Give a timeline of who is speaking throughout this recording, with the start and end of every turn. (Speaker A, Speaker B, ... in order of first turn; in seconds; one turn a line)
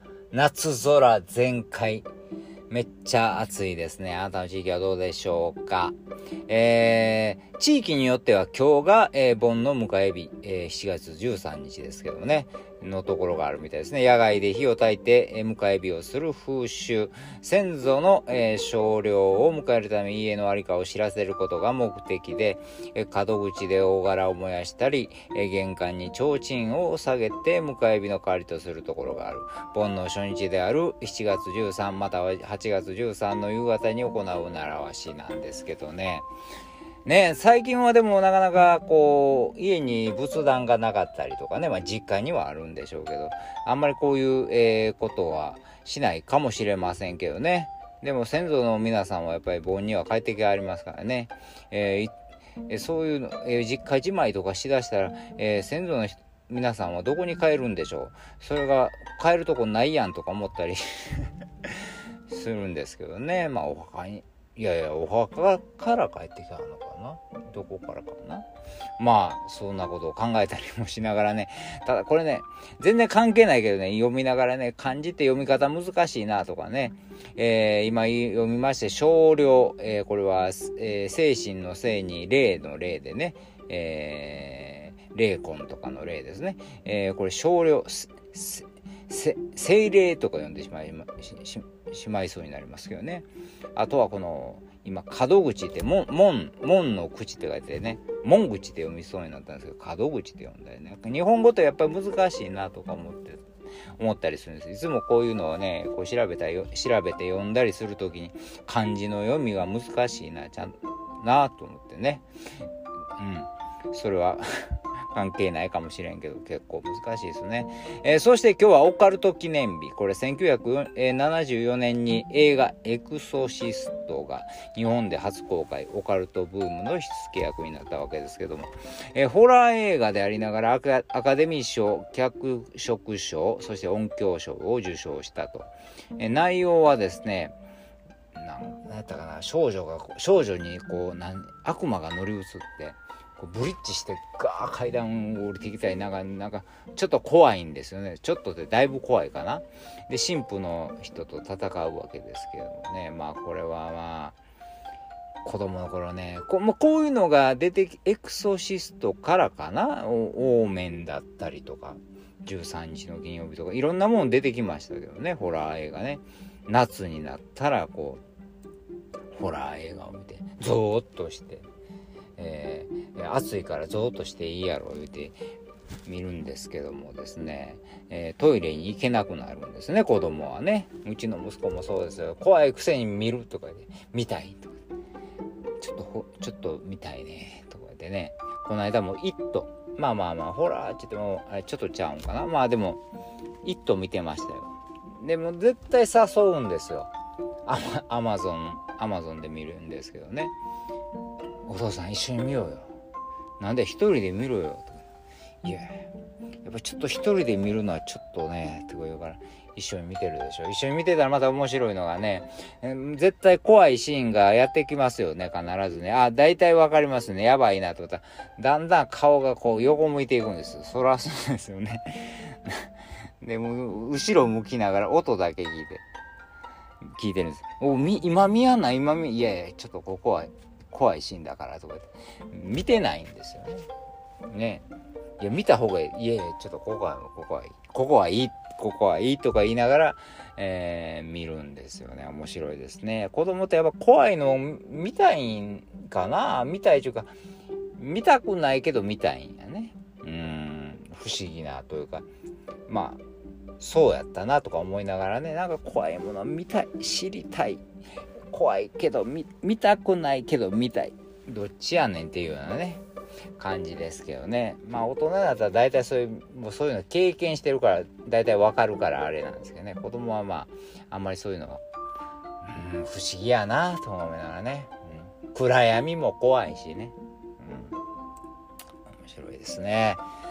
Speaker A: 0.3-2.0
Speaker A: 2.7-6.0
Speaker A: 6.5-36.3
Speaker A: 37.0-52.1
Speaker A: 52.7-68.5
Speaker A: 69.0-103.4
Speaker A: 104.0-112.3
Speaker A: 113.2-137.6
Speaker A: 138.3-154.4
Speaker A: 155.4-168.2
Speaker A: 169.3-171.7
Speaker A: 172.4-175.3
Speaker A: 176.1-184.8
Speaker A: 185.8-193.0
Speaker A: 193.6-197.1
Speaker A: 197.7-200.5
Speaker A: 201.7-202.9
Speaker A: 203.6-205.0
Speaker A: 205.6-206.1
Speaker A: 206.6-222.9
Speaker A: 223.4-226.0
Speaker A: 227.1-233.9
Speaker A: 234.5-234.8
Speaker A: 235.4-247.3
Speaker A: 248.0-252.3
Speaker A: 252.9-253.2
Speaker A: 253.8-257.8
Speaker A: 258.5-263.0
Speaker A: 263.6-271.8
Speaker A: 272.6-278.0
Speaker A: 279.1-280.2